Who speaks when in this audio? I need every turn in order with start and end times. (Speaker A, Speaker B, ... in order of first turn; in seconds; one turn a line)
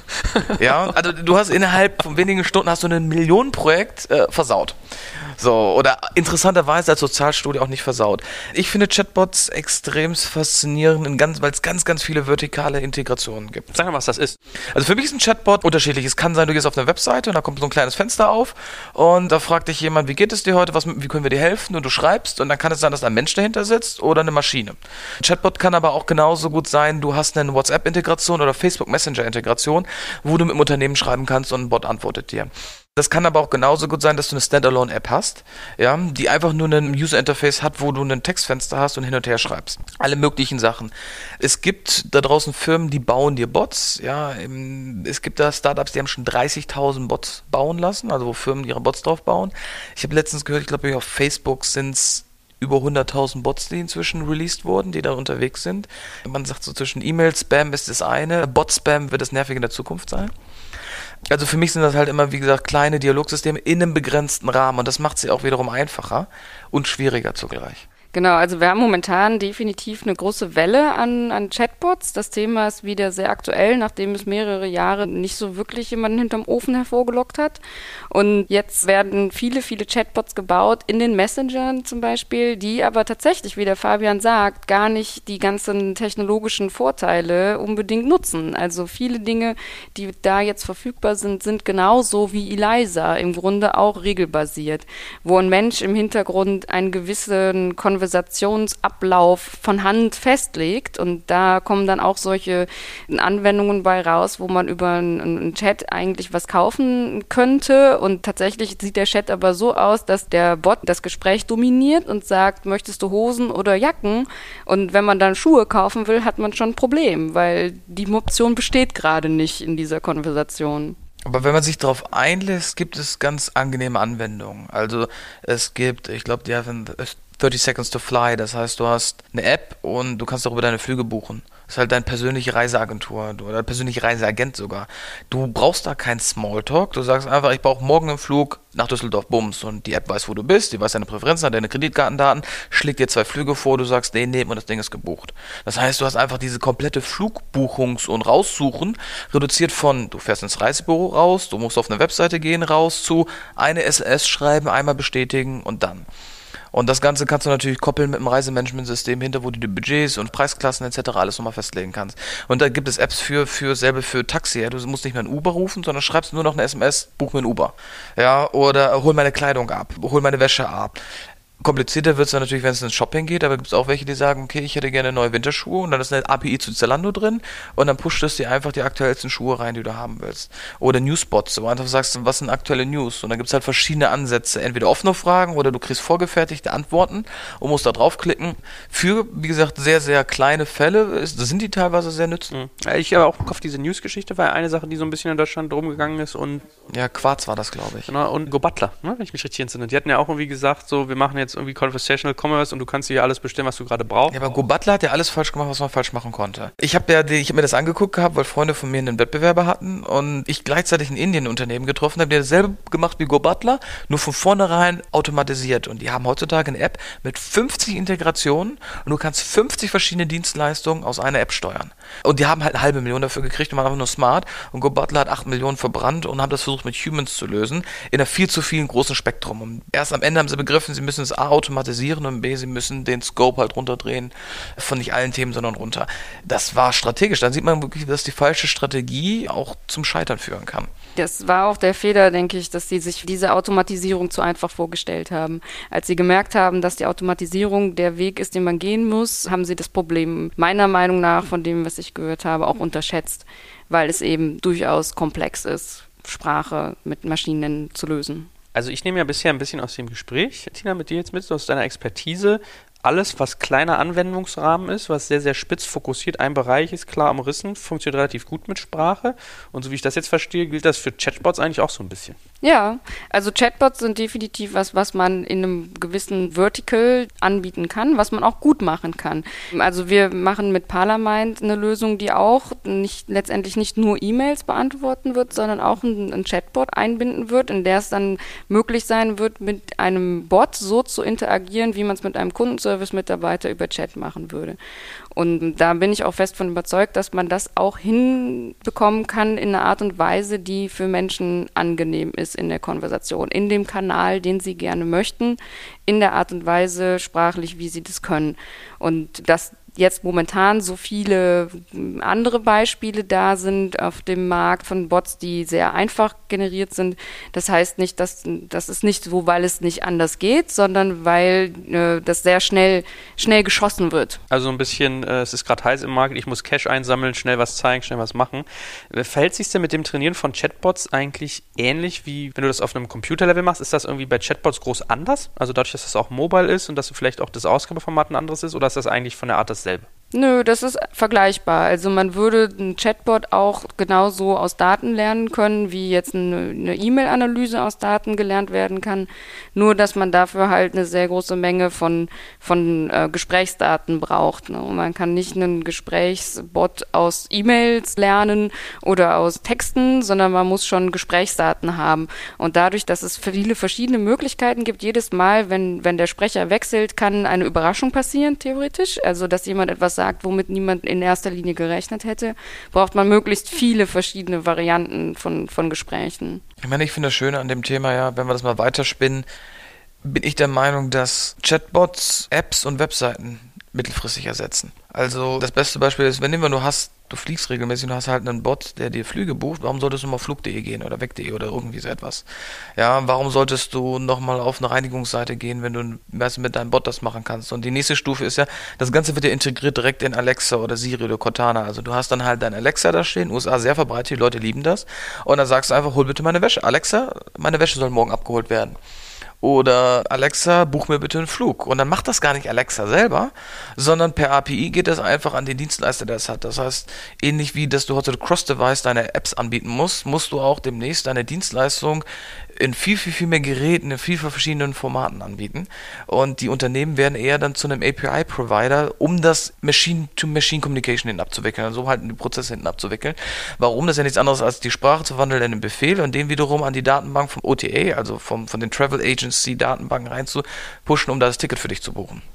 Speaker A: 0.2-0.6
Speaker B: 0.5-13.7
Speaker A: 13.7-14.4
Speaker B: 14.6-60.3
Speaker B: 61.3-67.8
Speaker C: 68.1-121.0
Speaker B: 121.3-156.1
Speaker B: 156.7-171.0
Speaker B: 171.6-192.5
Speaker A: 192.5-196.7
Speaker B: 196.9-198.1
Speaker A: 198.1-204.4
Speaker B: 204.3-240.9
Speaker C: 241.2-258.5
Speaker A: 258.7-272.4
Speaker C: 272.6-294.8
Speaker C: 295.3-324.4
Speaker A: 324.5-340.1
Speaker C: 340.3-376.6
Speaker B: 376.8-379.5
Speaker B: 380.2-392.4
Speaker B: 393.0-409.0
Speaker B: 409.6-422.2
Speaker B: 422.8-442.4